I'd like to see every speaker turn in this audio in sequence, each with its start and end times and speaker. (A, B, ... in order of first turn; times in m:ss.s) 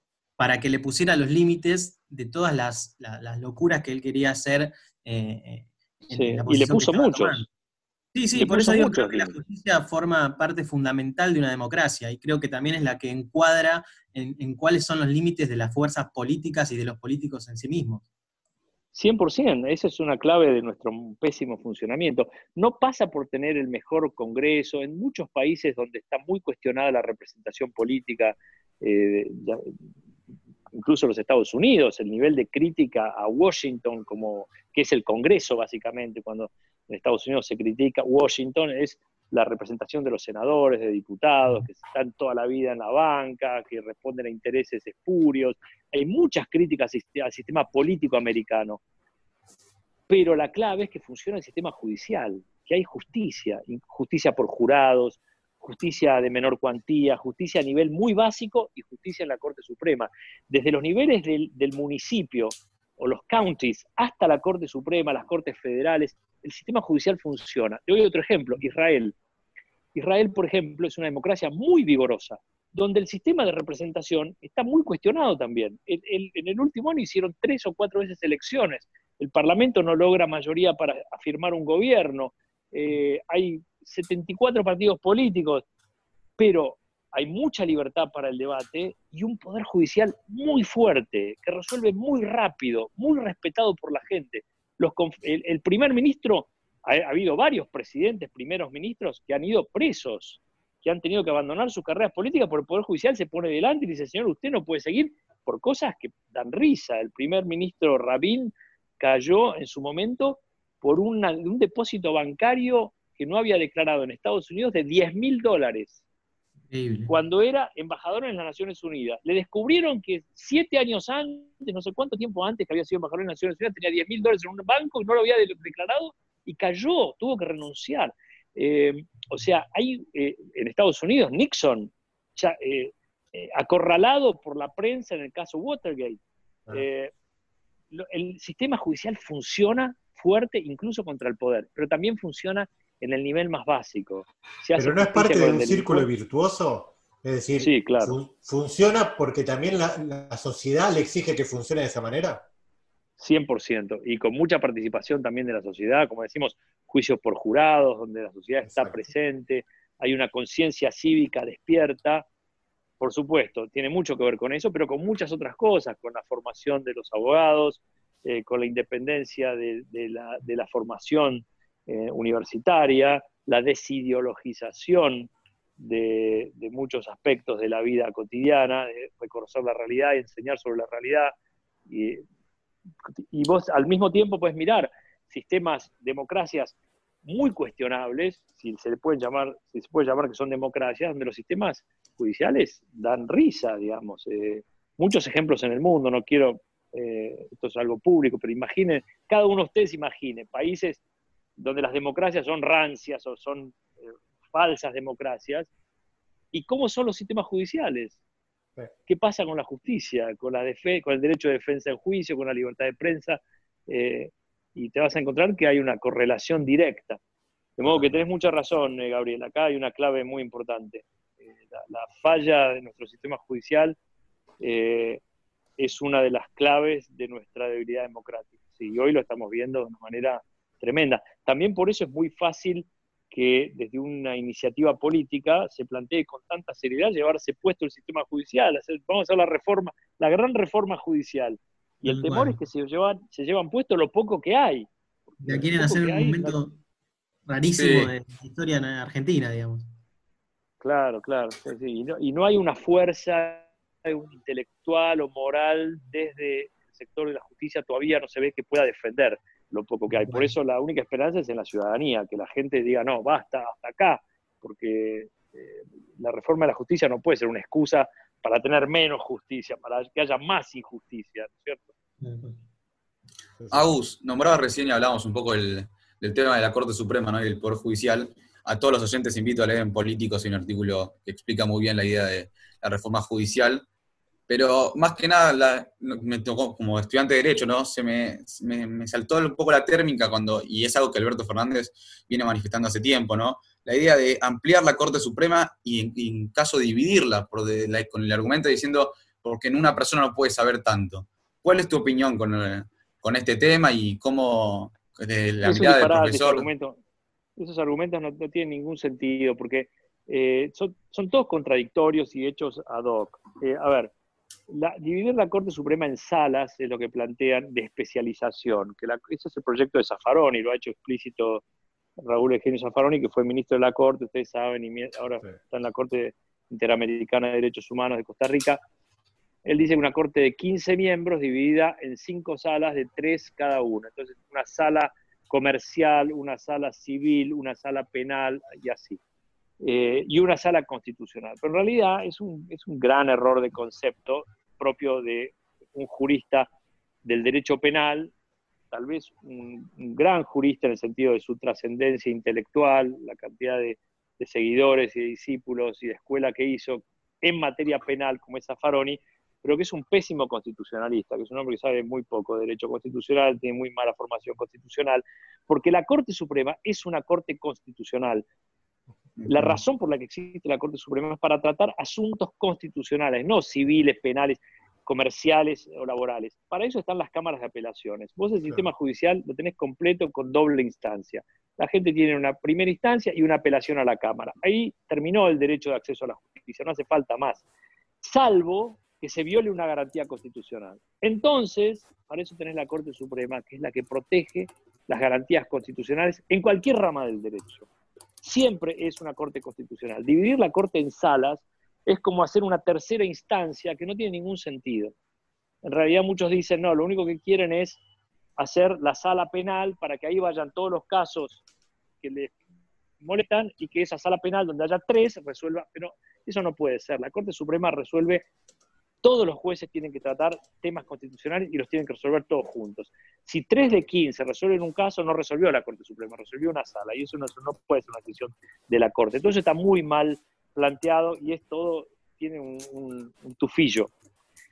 0:00.4-0:07.5 A
0:06.1-0:07.5 B
0:08.2-0:18.0 A
0:08.4-0:09.4 B
0:18.9-0:29.7 B
0:30.8-0:48.8 B
0:50.1-1:09.2 B
1:09.9-1:25.6 B
1:26.4-1:56.0 B
1:56.7-1:57.1 A
1:57.1-2:16.2 B
2:16.7-2:17.1 B
2:17.9-2:26.1 B
2:24.8-2:32.4 C
2:27.6-2:28.2 B
2:33.2-2:42.3 B
2:38.7-2:39.0 C
2:43.0-3:01.3 B
3:01.9-3:02.2 B
3:03.3-3:21.0 B
3:21.6-3:23.8 B
3:24.5-3:25.7 B
3:26.5-3:28.2 B
3:29.1-3:37.2 B
3:37.8-3:41.1 B
3:37.9-3:38.2 C
3:41.6-3:44.0 B
3:44.6-3:45.2 B
3:45.8-4:06.6 B
4:02.1-4:02.6 A
4:05.4-4:06.8 A
4:07.5-4:09.9 A
4:07.7-4:08.1 D
4:10.8-4:31.9 B
4:20.1-4:20.5 A
4:32.2-4:32.6 A
4:33.6-4:33.9 C
4:33.7-4:43.8 D
4:44.5-5:06.7 D
5:05.6-5:07.0 B
5:07.6-5:14.1 B
5:14.7-5:21.6 B
5:22.2-5:28.8 B
5:29.6-5:39.2 B
5:39.8-5:46.7 B
5:47.2-5:48.3 B
5:48.9-6:08.5 B
6:09.5-6:27.6 B
6:28.2-6:37.9 B
6:38.4-6:45.1 B
6:45.8-6:48.0 B
6:48.6-6:51.6 B
6:52.2-6:52.6 B
6:53.2-6:58.5 B
6:59.2-7:14.1 B